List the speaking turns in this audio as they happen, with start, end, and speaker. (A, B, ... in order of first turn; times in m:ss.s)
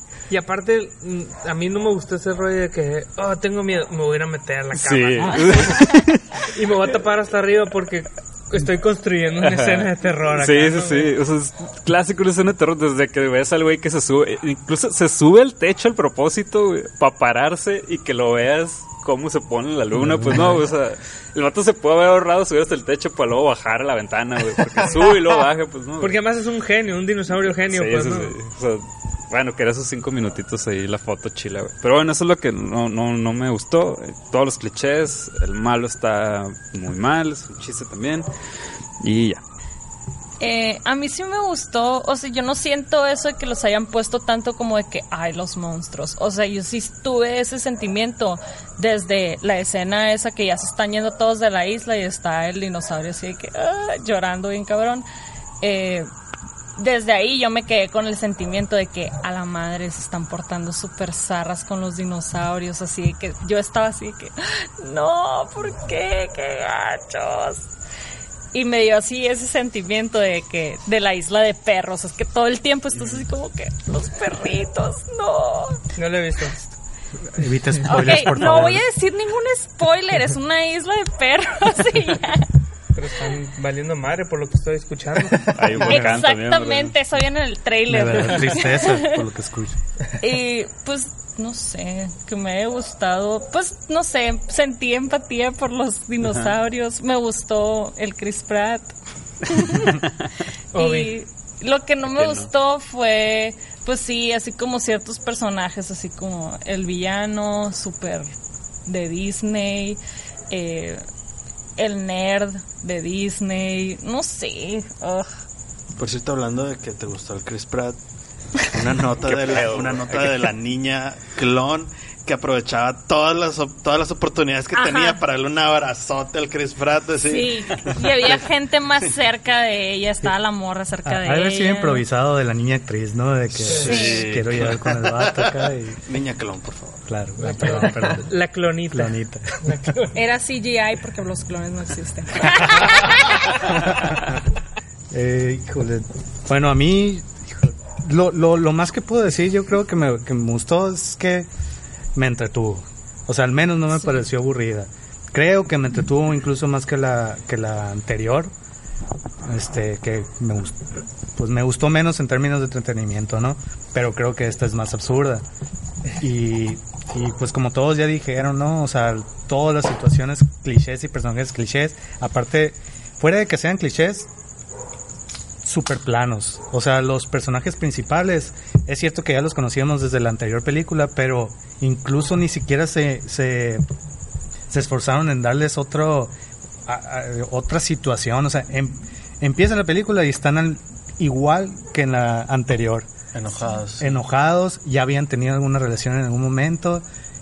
0:00.3-0:05.6 A
0:04.7-0:06.4 B
0:05.2-0:05.8 C
0:06.5-0:11.1 A
0:09.4-0:26.2 B
0:20.0-0:20.6 C
0:26.0-0:28.3 A
0:27.7-0:38.3 B
0:39.0-0:39.4 B
0:40.4-0:55.0 D
0:55.6-0:56.1 D
0:56.8-1:07.6 D
1:08.5-1:15.8 D
1:15.9-1:16.6 A
1:17.3-1:18.8 C
1:17.8-1:22.5 D
1:23.0-1:25.6 A
1:25.5-1:27.0 B
1:25.8-1:29.2 D
1:25.8-1:26.2 C
1:27.9-1:29.8 C
1:30.2-1:38.9 D
1:36.2-1:36.5 B
1:39.4-1:40.1 D
1:40.7-1:41.1 A
1:40.7-1:48.3 D
1:42.1-1:42.5 B
1:48.8-1:51.0 D
1:51.8-1:55.4 D
1:56.0-1:58.0 E
1:58.7-2:08.5 E
1:59.2-2:00.5 B
2:04.7-2:05.2 D
2:07.2-2:12.0 D
2:11.0-2:16.0 C
2:13.6-2:17.1 E
2:13.8-2:14.2 D
2:17.1-2:18.3 C
2:17.4-2:20.2 A
2:18.9-2:19.8 C
2:20.1-2:23.5 D
2:24.1-2:24.4 C
2:25.1-2:31.5 C
2:32.1-2:38.5 C
2:39.4-2:40.8 C
2:41.4-2:45.4 C
2:46.2-2:54.3 C
2:55.6-3:03.8 C
3:04.7-3:06.3 C
3:06.8-3:13.1 C
3:13.3-3:14.2 E
3:14.0-3:17.0 C